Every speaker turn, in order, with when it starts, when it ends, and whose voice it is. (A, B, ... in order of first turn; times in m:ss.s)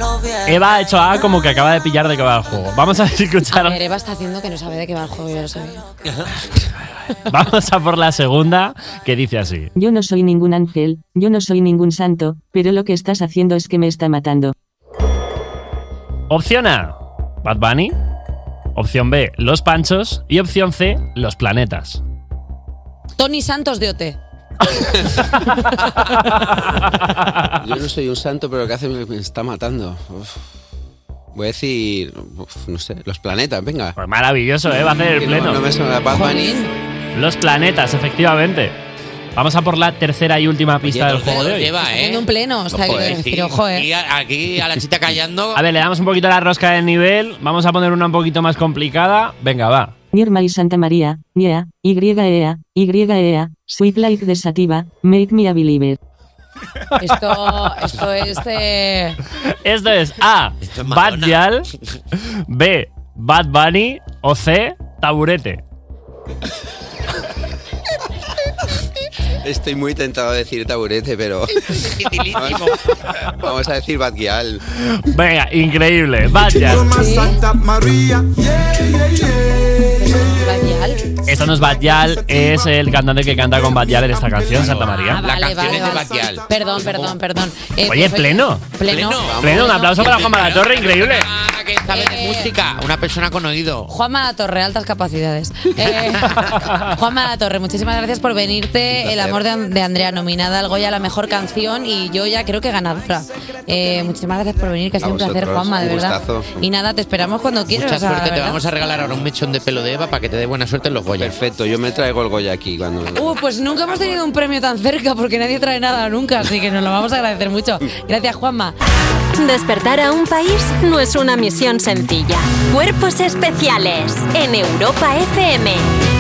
0:00.5-0:03.8 A
0:03.5-0:05.8 B
0:07.3-0:09.7 A
0:09.8-0:14.5 C
0:16.3-0:18.0 A
0:18.8-0:22.0 A
0:23.2-0:24.2 B
0:26.3-0:27.5 A
0:27.6-0:30.4 D
0:31.3-0:34.0 D
0:34.0-0:35.6 A
0:35.2-0:36.6 D
0:36.1-0:36.7 B
0:37.2-0:38.8 A
0:39.4-0:41.7 A
0:40.9-0:45.6 E
0:41.8-0:43.9 B
0:45.6-0:49.9 A
0:50.1-0:56.0 C
0:57.0-0:59.2 B
0:59.6-1:01.7 A
1:00.6-1:01.4 E
1:02.5-1:05.6 A
1:09.4-1:14.6 D
1:11.7-1:13.0 E
1:14.8-1:16.9 A
1:16.5-1:20.5 F
1:16.9-1:17.4 B
1:19.8-1:21.1 B
1:21.3-1:25.2 A
1:21.5-1:22.7 F
1:23.7-1:24.7 F
1:24.6-1:27.2 E
1:24.9-1:30.1 B
1:25.6-1:26.4 F
1:27.9-1:28.6 A
1:28.9-1:33.9 E
1:29.4-1:31.3 A
1:31.9-1:32.5 B
1:33.9-1:48.6 B
1:35.8-1:36.5 E
1:38.9-1:39.4 D
1:45.0-1:46.6 D
1:47.7-1:51.4 E
1:51.2-1:53.4 D
1:53.1-1:58.8 B
1:59.4-2:05.9 G